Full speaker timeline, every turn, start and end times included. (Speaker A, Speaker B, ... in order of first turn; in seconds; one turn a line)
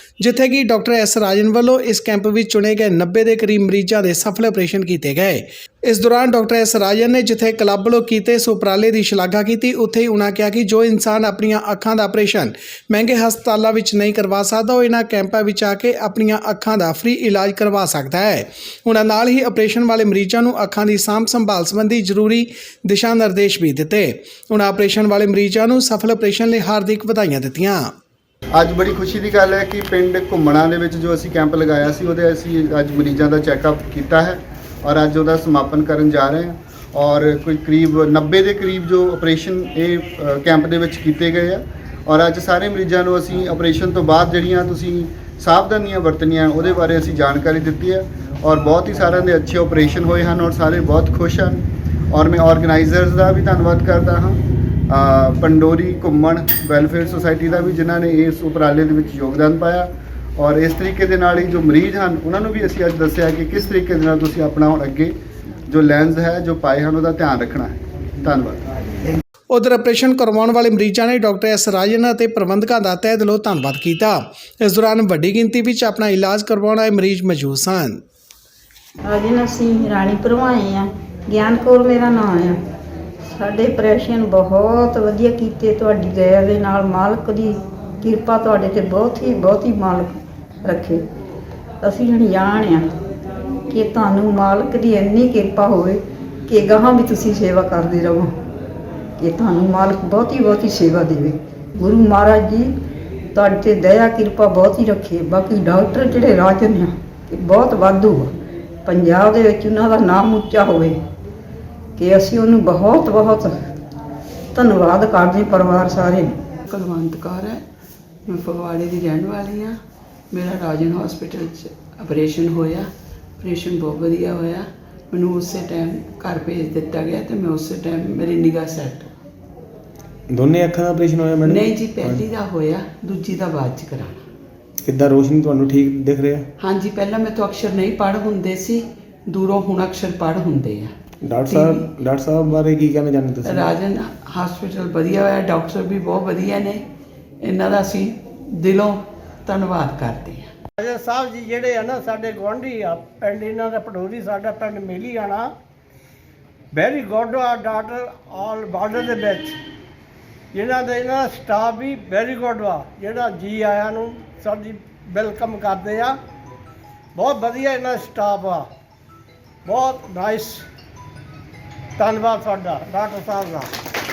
Speaker A: 0.2-27.9
Speaker B: 28.5-65.1
Speaker B: 65.7-68.6
Speaker A: 69.5-78.0
Speaker C: 79.0-82.5
Speaker C: 83.3-91.0
Speaker C: 91.8-92.8
Speaker C: 93.7-98.3
Speaker C: 99.2-102.7
Speaker C: 103.3-108.3
Speaker C: 108.9-111.0
Speaker C: 112.0-113.5
Speaker C: 114.5-116.3
Speaker D: 116.7-117.6
Speaker D: 118.3-119.7
Speaker D: 120.3-122.9
Speaker D: 123.4-129.1
Speaker E: 130.3-132.2
Speaker D: 131.5-134.2
Speaker E: 134.8-136.5
Speaker D: 136.6-140.9
Speaker E: 141.2-143.7
Speaker D: 141.5-141.9
Speaker D: 143.5-146.8
Speaker D: 147.4-150.5
Speaker F: 150.8-155.5
Speaker F: 156.7-159.6
Speaker F: 160.5-166.2
Speaker F: 167.2-168.7
Speaker F: 169.7-170.6
Speaker F: 172.0-173.7